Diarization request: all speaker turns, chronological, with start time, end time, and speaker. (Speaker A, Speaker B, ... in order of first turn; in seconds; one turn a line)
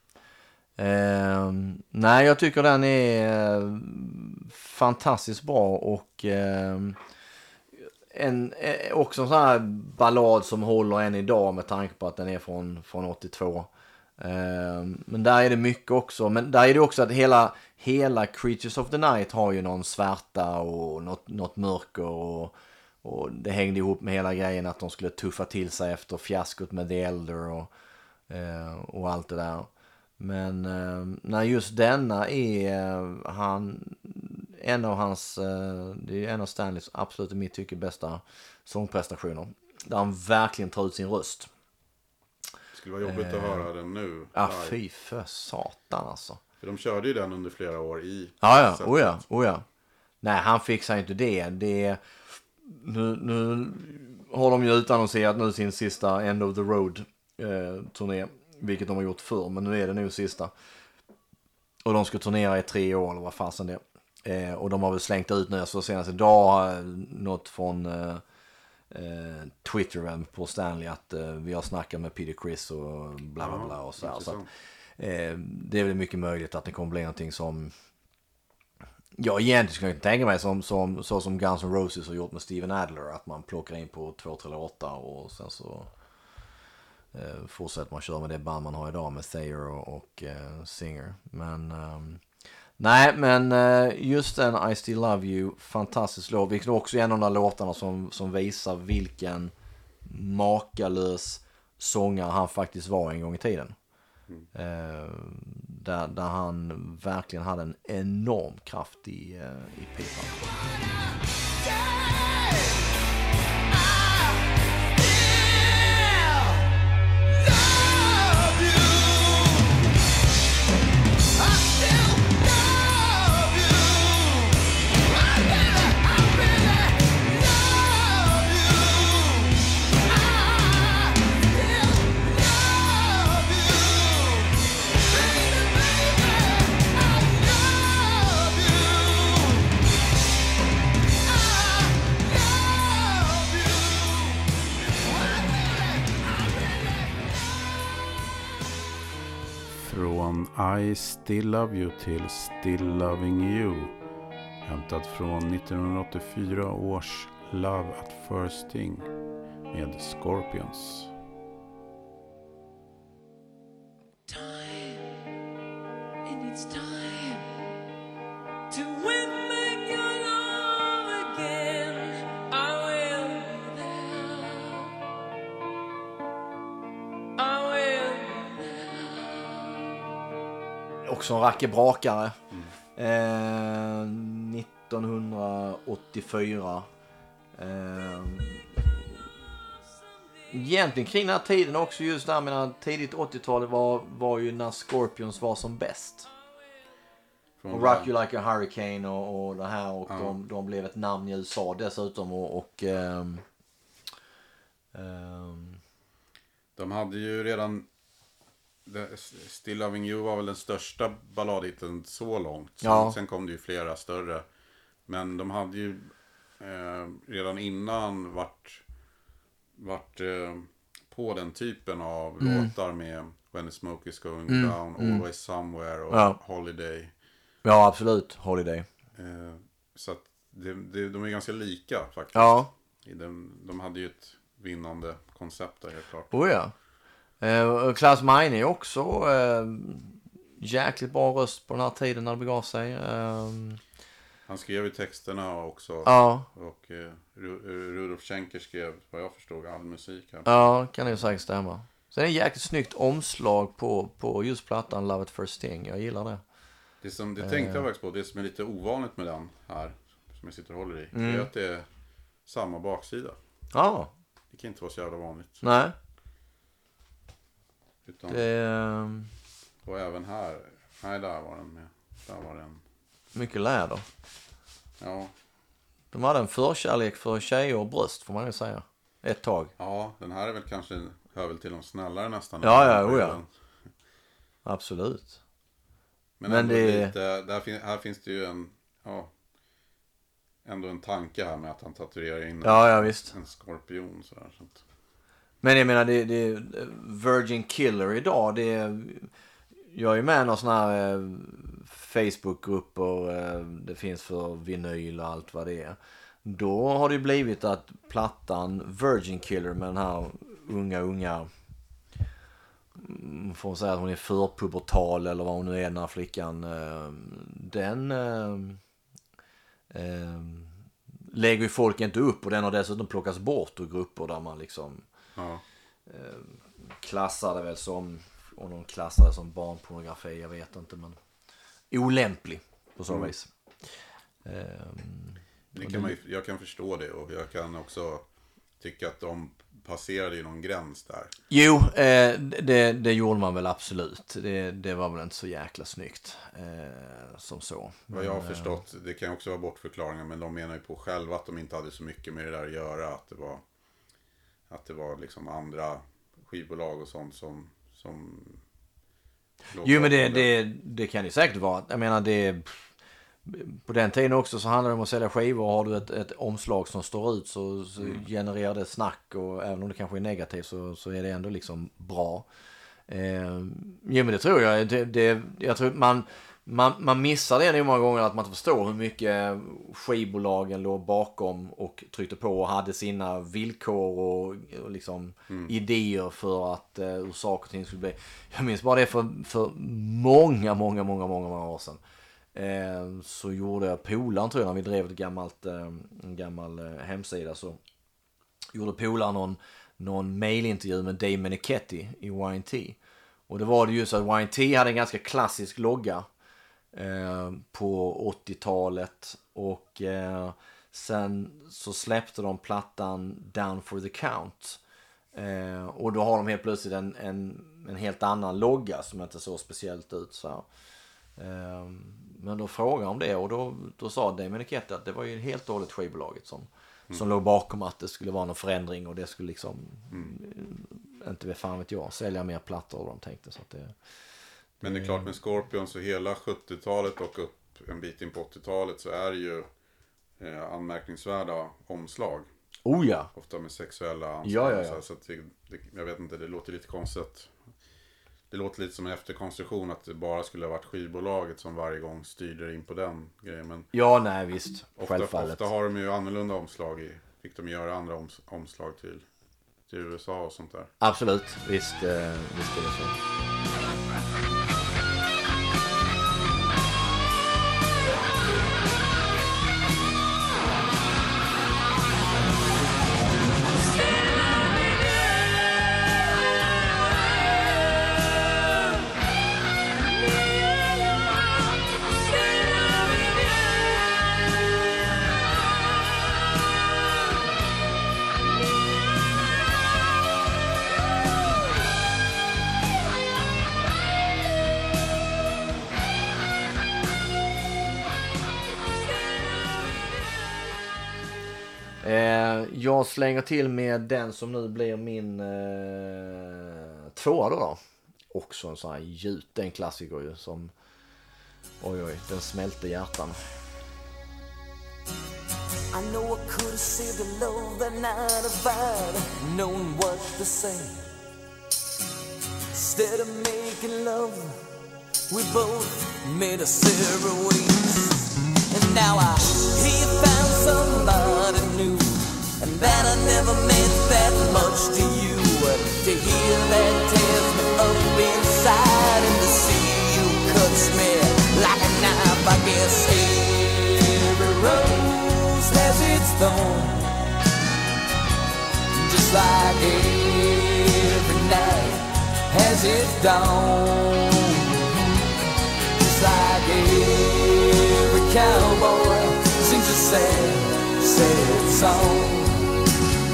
Speaker A: 0.8-7.0
Speaker A: 8.1-27.7
Speaker A: 28.3-41.5
Speaker B: 42.7-44.8
Speaker A: 43.0-43.7
Speaker A: 44.3-46.4
Speaker B: 46.6-49.2
Speaker A: 48.4-49.6
Speaker A: 50.2-52.0
Speaker A: 52.6-60.5
Speaker A: 61.8-68.2
Speaker A: 68.9-74.4
Speaker B: 73.4-74.5
Speaker A: 75.0-77.7
Speaker A: 79.2-85.9
Speaker A: 87.1-92.2
Speaker A: 92.8-99.5
Speaker A: 100.1-103.8
Speaker A: 104.5-110.4
Speaker C: 115.2-116.6
Speaker C: 122.1-122.4
Speaker B: 149.7-154.0
Speaker B: 154.6-159.1
Speaker B: 159.7-161.1
Speaker C: 164.3-165.1
Speaker C: 166.2-167.6
Speaker C: 168.7-174.9
Speaker C: 177.4-179.5
Speaker A: 181.1-182.4
Speaker A: 183.0-186.9
Speaker A: 187.6-188.8
Speaker A: 190.5-196.3
Speaker B: 197.6-198.1
Speaker A: 197.7-203.4
Speaker B: 200.1-200.3
Speaker A: 204.9-205.8
Speaker B: 206.8-207.9
Speaker B: 208.8-214.5
Speaker A: 212.8-213.2
Speaker B: 215.1-218.8
Speaker B: 219.8-227.1
Speaker A: 222.4-222.7
Speaker A: 224.5-225.2
Speaker A: 226.1-226.4
Speaker A: 227.6-228.9
Speaker B: 229.2-236.4
Speaker A: 232.3-232.7
Speaker A: 236.3-236.7
Speaker A: 237.4-243.8
Speaker B: 244.5-250.5
Speaker A: 246.1-246.5
Speaker A: 250.5-256.4
Speaker B: 257.0-261.9
Speaker A: 257.4-257.9
Speaker A: 261.1-261.5
Speaker B: 262.4-263.4
Speaker A: 263.7-264.1
Speaker B: 264.5-265.6
Speaker A: 265.6-265.9
Speaker B: 268.1-268.5
Speaker A: 268.3-269.3
Speaker B: 269.8-272.8
Speaker A: 273.3-274.0
Speaker B: 275.0-275.3
Speaker A: 276.1-279.7
Speaker B: 279.8-283.5
Speaker A: 282.6-283.4
Speaker A: 284.6-285.4
Speaker B: 286.4-289.3
Speaker A: 286.5-287.1
Speaker B: 290.6-294.8
Speaker A: 292.6-293.3
Speaker A: 295.6-299.3
Speaker A: 299.9-311.5
Speaker A: 313.0-318.8
Speaker A: 319.9-320.7
Speaker A: 321.3-325.0
Speaker B: 325.4-325.6
Speaker A: 326.1-331.2
Speaker A: 331.9-333.5
Speaker A: 334.4-336.2
Speaker B: 335.7-338.2
Speaker B: 338.8-341.3
Speaker A: 341.5-348.8
Speaker B: 348.1-353.6
Speaker B: 354.7-358.6
Speaker B: 359.7-360.6
Speaker A: 359.8-362.8
Speaker A: 363.5-372.5
Speaker A: 373.1-392.0
Speaker A: 392.5-397.8
Speaker A: 398.7-403.0
Speaker A: 403.5-406.3
Speaker A: 406.9-414.8
Speaker A: 415.3-420.7
Speaker A: 421.4-433.9
Speaker A: 434.8-435.3
Speaker B: 434.8-439.7
Speaker B: 440.4-442.5
Speaker A: 442.9-443.3
Speaker B: 443.4-447.6
Speaker A: 444.4-445.0
Speaker B: 448.5-453.9
Speaker A: 453.9-455.6
Speaker B: 455.0-459.3
Speaker B: 459.9-460.9
Speaker A: 461.0-463.2
Speaker C: 473.8-475.9
Speaker C: 480.2-481.4
Speaker C: 482.0-484.2
Speaker A: 502.0-507.8
Speaker A: 508.3-510.7
Speaker A: 511.8-513.4
Speaker D: 515.9-521.1
Speaker D: 522.7-524.6
Speaker D: 525.3-547.1
Speaker D: 548.9-554.9
Speaker D: 556.0-562.7